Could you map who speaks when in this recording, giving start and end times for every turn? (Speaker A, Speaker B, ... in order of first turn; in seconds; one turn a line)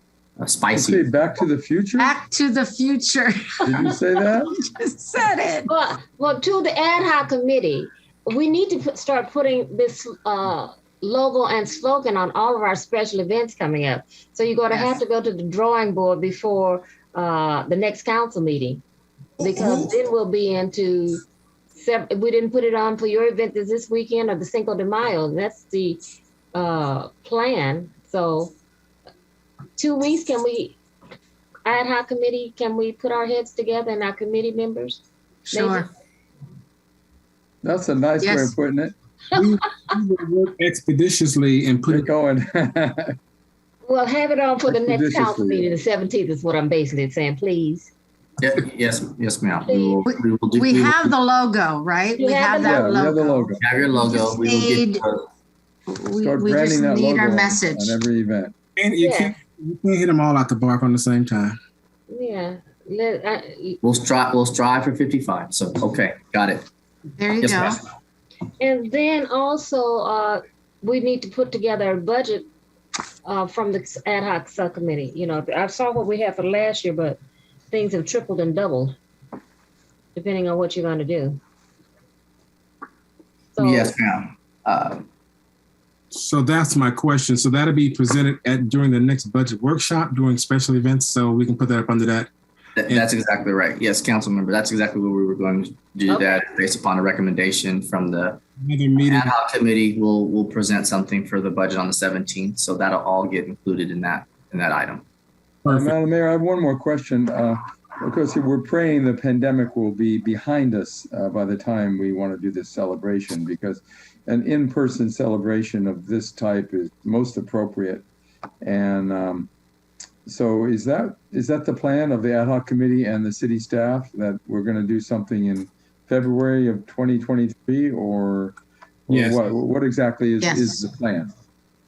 Speaker A: 0.4-1.1
Speaker B: 0.7-2.1
Speaker C: 2.0-3.7
Speaker B: 3.6-4.5
Speaker C: 4.3-5.7
Speaker D: 5.7-18.8
Speaker D: 19.4-26.0
Speaker D: 26.5-28.5
Speaker D: 29.8-30.8
Speaker D: 31.6-35.9
Speaker C: 35.5-35.9
Speaker B: 37.6-38.9
Speaker C: 38.2-38.5
Speaker D: 39.3-39.9
Speaker E: 39.3-42.1
Speaker B: 41.9-43.1
Speaker D: 43.8-47.9
Speaker B: 44.7-45.7
Speaker A: 48.4-51.1
Speaker D: 49.7-50.0
Speaker C: 50.0-55.0
Speaker D: 52.2-52.9
Speaker B: 52.6-53.6
Speaker A: 53.6-55.2
Speaker C: 55.9-58.0
Speaker B: 56.2-58.5
Speaker E: 58.8-61.6
Speaker D: 59.0-59.4
Speaker D: 62.1-63.8
Speaker A: 63.8-66.7
Speaker C: 67.2-67.8
Speaker A: 67.4-67.8
Speaker D: 68.6-72.5
Speaker D: 73.2-77.2
Speaker D: 77.7-79.0
Speaker D: 80.1-81.4
Speaker D: 83.5-84.0
Speaker A: 83.6-85.1
Speaker E: 86.1-92.3
Speaker A: 92.8-98.4
Speaker E: 98.6-99.3
Speaker A: 99.0-105.0
Speaker E: 105.6-105.9
Speaker B: 105.7-118.0
Speaker B: 118.6-119.5
Speaker B: 120.2-128.5
Speaker B: 129.1-131.3
Speaker E: 129.1-129.5
Speaker C: 130.4-130.8